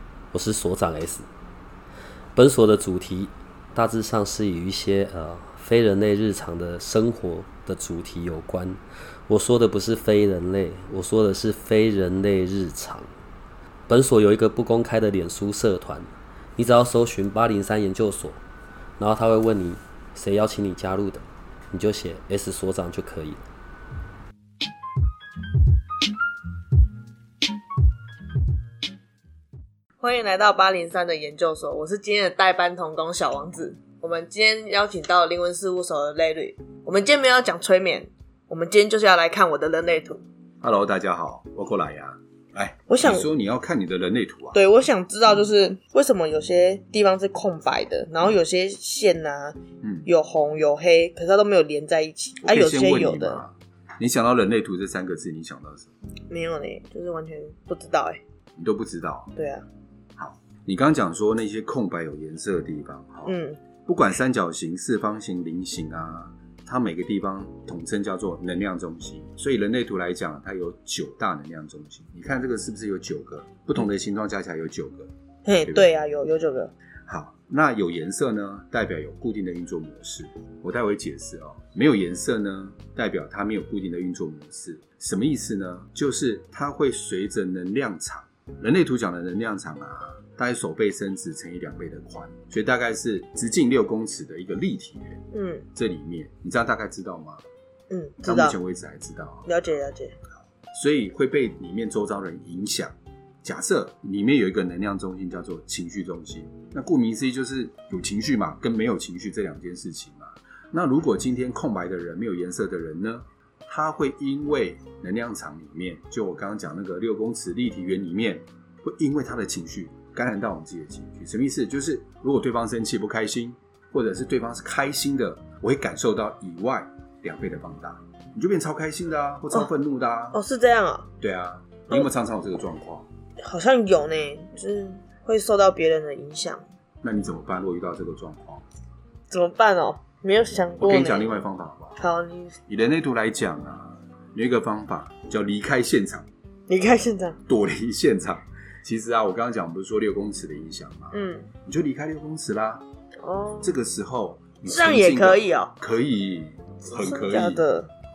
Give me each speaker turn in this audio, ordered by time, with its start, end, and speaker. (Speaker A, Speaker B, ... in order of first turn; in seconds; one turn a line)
Speaker A: 0.3-1.3
Speaker A: 2.4-13.1
Speaker A: 13.9-18.4
Speaker A: 19.0-23.5
Speaker B: 30.0-40.2
Speaker C: 40.6-44.6
Speaker B: 42.9-43.3
Speaker B: 44.5-53.4
Speaker C: 49.8-50.1
Speaker C: 52.4-55.9
Speaker B: 56.3-58.2
Speaker C: 58.6-59.3
Speaker B: 59.4-59.7
Speaker C: 60.2-75.1
Speaker B: 63.3-63.6
Speaker B: 75.5-76.7
Speaker C: 75.7-76.0
Speaker C: 77.1-95.2
Speaker B: 95.3-95.7
Speaker C: 95.8-97.5
Speaker B: 97.9-98.6
Speaker C: 98.2-99.5
Speaker B: 99.5-100.2
Speaker C: 100.7-130.4
Speaker B: 130.3-131.1
Speaker C: 131.2-133.1
Speaker B: 133.4-136.7
Speaker C: 137.0-138.6
Speaker B: 139.3-141.4
Speaker C: 140.8-142.0
Speaker B: 142.0-142.6
Speaker C: 142.7-146.3
Speaker B: 146.7-147.4
Speaker C: 147.5-152.8
Speaker B: 151.1-151.5
Speaker B: 153.2-153.8
Speaker C: 153.6-157.7
Speaker B: 154.7-155.8
Speaker B: 156.9-157.9